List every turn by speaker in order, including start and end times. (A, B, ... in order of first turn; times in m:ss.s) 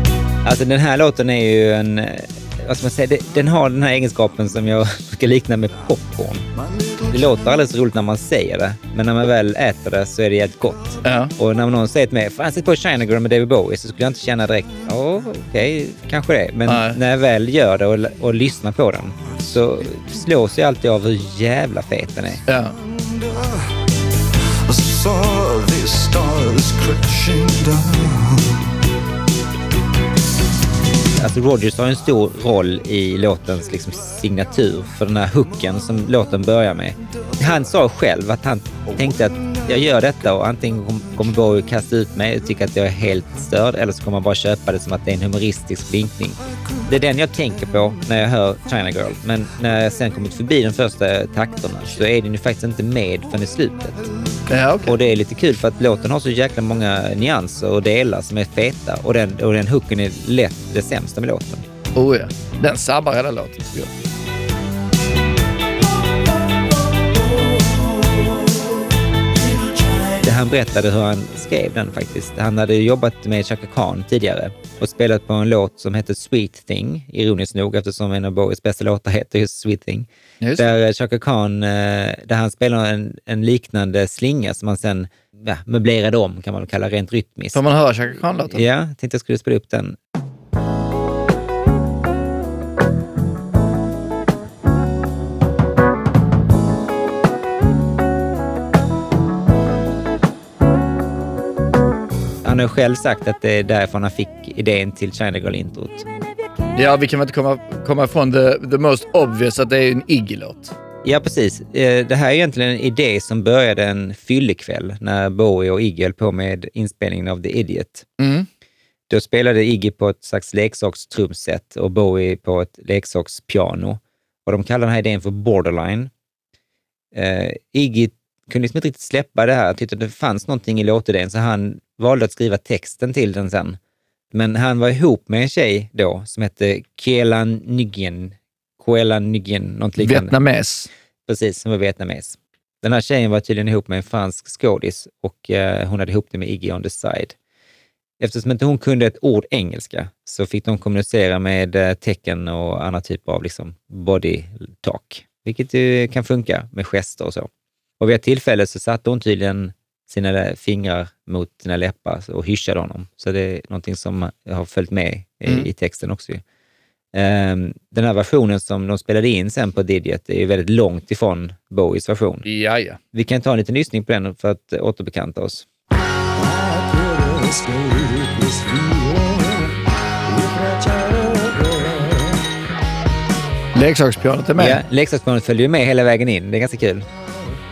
0:00.4-0:06.4 A
0:06.6-0:07.1 B
0:07.1-0:22.4 A
0:11.0-0:11.3 C
0:16.6-0:17.0 C
0:22.4-0:22.8 C
0:22.8-0:23.6 B
0:24.7-0:28.6 B
0:31.2-0:54.1 A
0:54.5-0:55.0 C
0:54.8-1:01.6 A
1:01.9-1:03.9 C
1:10.2-1:27.6 A
1:20.4-1:20.7 C
1:27.5-1:28.6 C
1:28.5-1:30.0 A
1:42.4-1:46.0 A
1:46.8-1:50.7 C
1:51.0-1:58.1 A
1:58.2-1:58.5 C
1:59.1-2:06.1 A
2:07.1-2:13.8 A
2:14.3-2:20.3 A
2:20.0-2:20.9 C
2:21.3-2:27.3 A
2:28.2-2:46.4 A
2:47.1-2:52.4 A
2:52.4-2:53.0 C
2:53.1-2:55.6 A
2:56.4-2:59.7 B
3:00.3-3:02.4 B
3:03.7-3:04.8 C
3:04.6-3:07.0 A